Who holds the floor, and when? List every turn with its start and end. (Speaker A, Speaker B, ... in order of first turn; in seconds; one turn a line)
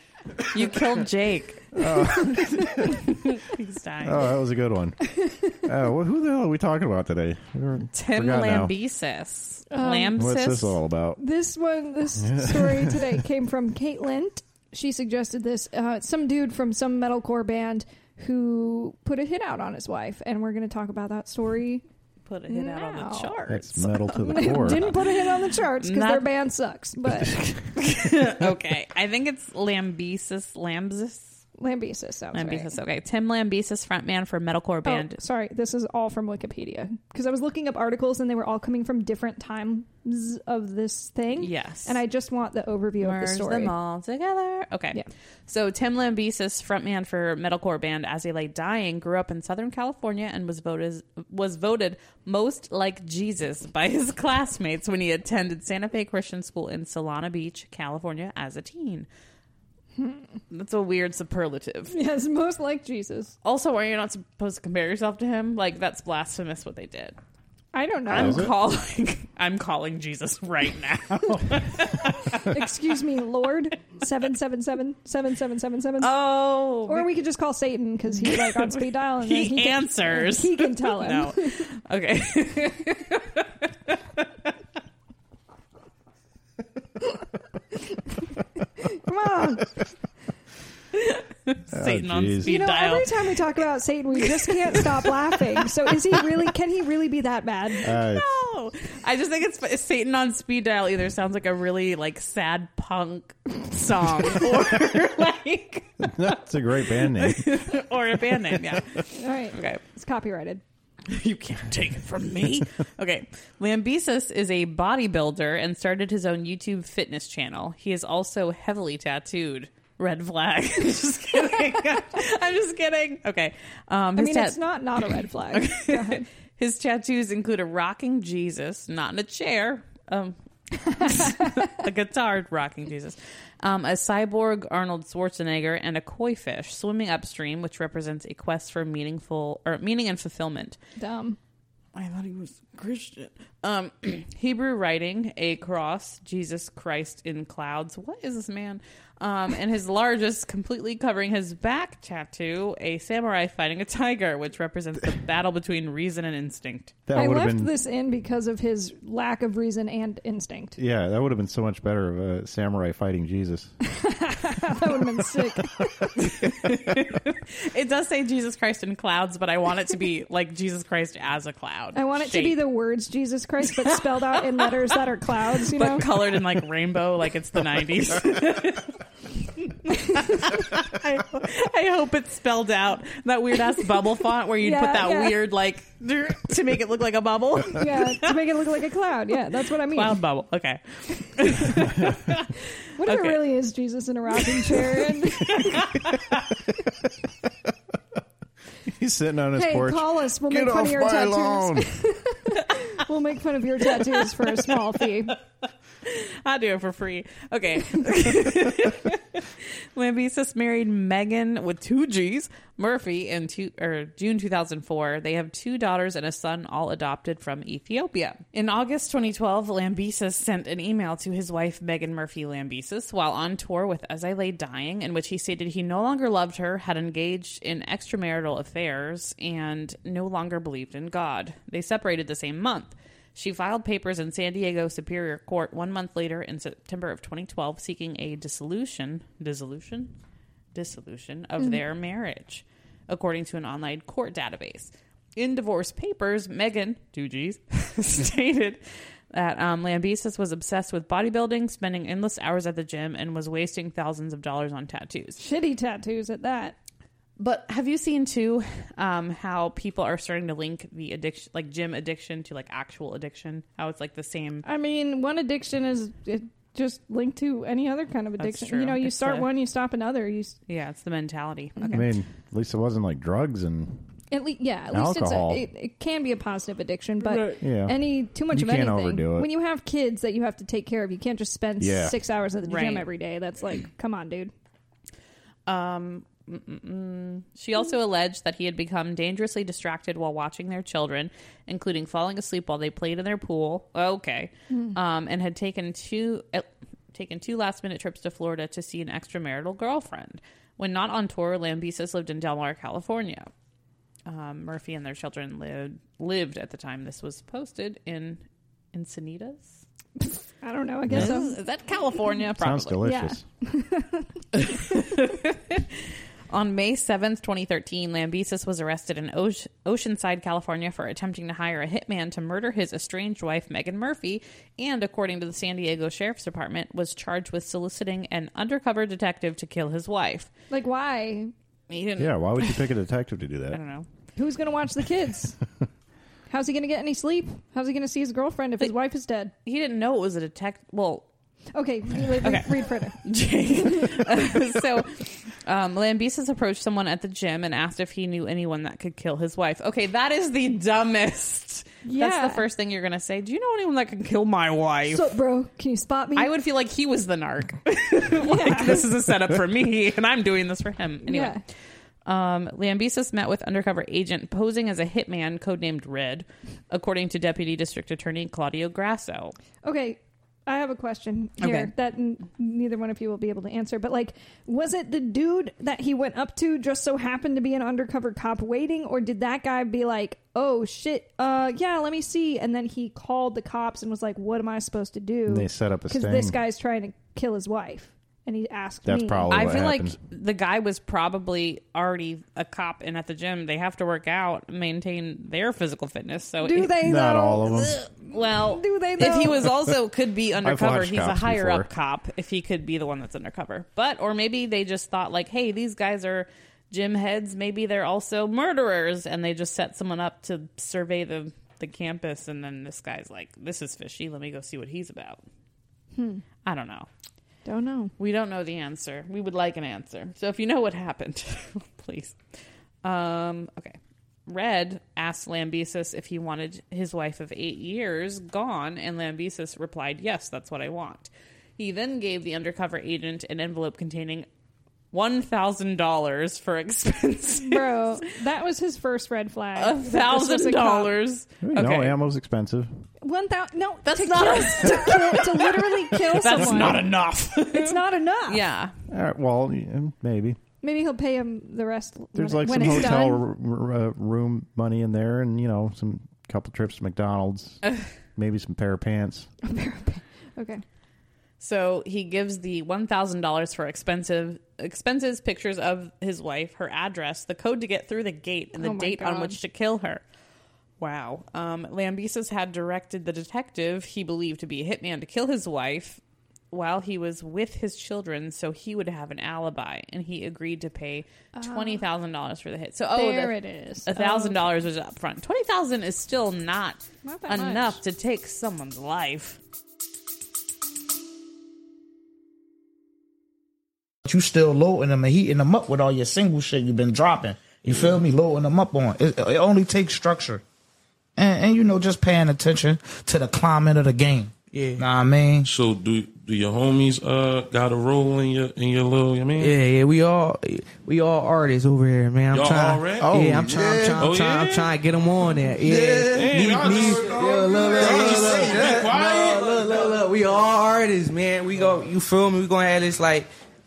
Speaker A: 0.5-2.2
Speaker B: 1.8-3.0
Speaker C: 1.8-2.9
Speaker A: 2.9-4.3
Speaker B: 4.0-5.1
Speaker C: 5.1-5.6
Speaker B: 5.6-8.7
Speaker A: 7.9-10.8
Speaker C: 9.7-10.3
Speaker B: 10.2-11.2
Speaker C: 11.2-21.8
Speaker B: 12.2-13.1
Speaker A: 22.2-26.3
Speaker C: 22.5-23.4
Speaker B: 23.5-24.9
Speaker C: 24.2-27.4
Speaker A: 27.8-31.4
Speaker C: 31.6-32.7
Speaker A: 32.3-35.2
Speaker C: 34.9-43.7
Speaker A: 41.4-42.0
Speaker A: 43.0-59.1
Speaker C: 60.0-60.2
Speaker A: 60.5-62.0
Speaker C: 61.9-63.3
Speaker A: 63.4-67.2
Speaker C: 67.7-68.5
Speaker A: 68.1-72.5
Speaker B: 68.1-68.5
Speaker C: 72.4-76.1
Speaker A: 76.0-77.1
Speaker C: 76.9-81.7
Speaker A: 78.2-84.5
Speaker C: 88.8-89.8
Speaker A: 90.9-93.4
Speaker B: 91.7-92.5
Speaker C: 92.4-97.9
Speaker A: 94.2-95.1
Speaker B: 97.8-98.3
Speaker A: 97.8-106.1
Speaker B: 106.0-107.6
Speaker A: 107.0-109.8
Speaker C: 109.1-110.6
Speaker A: 111.1-140.8
Speaker C: 124.2-126.2
Speaker C: 131.0-131.6
Speaker C: 141.0-141.4
Speaker A: 141.9-157.0
Speaker B: 157.1-157.7
Speaker C: 157.1-160.8
Speaker B: 160.8-163.7
Speaker C: 163.8-166.3
Speaker A: 166.2-172.6
Speaker C: 171.9-176.2
Speaker A: 173.8-174.6
Speaker A: 175.7-178.9
Speaker A: 179.6-188.5
Speaker C: 179.9-180.5
Speaker C: 184.6-185.4
Speaker C: 187.7-190.2
Speaker A: 189.9-193.4
Speaker C: 192.9-195.9
Speaker A: 194.5-196.4
Speaker B: 198.9-201.9
Speaker C: 199.5-205.4
Speaker A: 204.0-204.6
Speaker A: 206.0-240.1
Speaker A: 240.7-255.4
Speaker C: 255.4-256.8
Speaker A: 257.4-264.7
Speaker C: 264.6-270.6
Speaker A: 268.4-269.5
Speaker A: 270.7-272.1
Speaker C: 271.8-272.0
Speaker B: 271.9-274.0
Speaker C: 274.3-284.5
Speaker B: 274.9-275.7
Speaker B: 277.6-279.5
Speaker B: 281.8-282.2
Speaker A: 282.6-283.1
Speaker A: 285.7-303.5
Speaker C: 294.7-294.9
Speaker A: 304.3-309.8
Speaker C: 310.2-311.6
Speaker B: 311.1-311.4
Speaker A: 311.1-313.0
Speaker B: 312.5-313.4
Speaker C: 313.0-314.4
Speaker A: 314.6-330.5
Speaker C: 330.7-331.5
Speaker A: 331.9-332.8
Speaker B: 332.2-333.8
Speaker A: 333.7-334.1
Speaker C: 334.4-335.6
Speaker C: 336.5-339.5
Speaker A: 339.6-341.3
Speaker C: 341.7-343.2
Speaker A: 342.4-355.3
Speaker C: 343.8-344.2
Speaker C: 352.0-352.6
Speaker C: 355.1-356.5
Speaker A: 356.4-361.6
Speaker C: 358.4-359.0
Speaker C: 361.3-361.6
Speaker A: 362.3-369.6
Speaker C: 369.8-389.5
Speaker A: 371.6-371.9
Speaker B: 385.5-386.6
Speaker B: 389.1-390.2
Speaker A: 389.5-397.0
Speaker C: 396.6-399.6
Speaker B: 397.0-398.0
Speaker A: 398.0-415.4
Speaker B: 400.6-401.9
Speaker C: 416.1-416.4
Speaker A: 416.6-417.1
Speaker C: 417.6-418.1
Speaker A: 418.2-422.4
Speaker A: 423.0-434.5
Speaker A: 435.1-438.2
Speaker C: 437.6-441.1
Speaker A: 439.8-442.2
Speaker B: 441.6-442.9
Speaker C: 443.2-448.6
Speaker A: 444.1-448.9
Speaker B: 449.1-450.6
Speaker C: 450.8-453.4
Speaker B: 452.4-457.8
Speaker B: 458.4-459.5
Speaker C: 459.6-460.8
Speaker A: 461.6-470.2
Speaker C: 468.7-469.6
Speaker A: 471.0-476.2
Speaker A: 476.7-489.6
Speaker C: 481.6-482.0
Speaker C: 483.1-484.7
Speaker C: 487.2-488.0
Speaker D: 494.2-500.6
Speaker D: 501.4-505.7
Speaker E: 504.7-505.0
Speaker F: 505.6-509.8
Speaker E: 509.6-523.5
Speaker F: 512.5-515.0
Speaker D: 513.3-514.2
Speaker D: 515.9-519.1
Speaker F: 515.9-519.7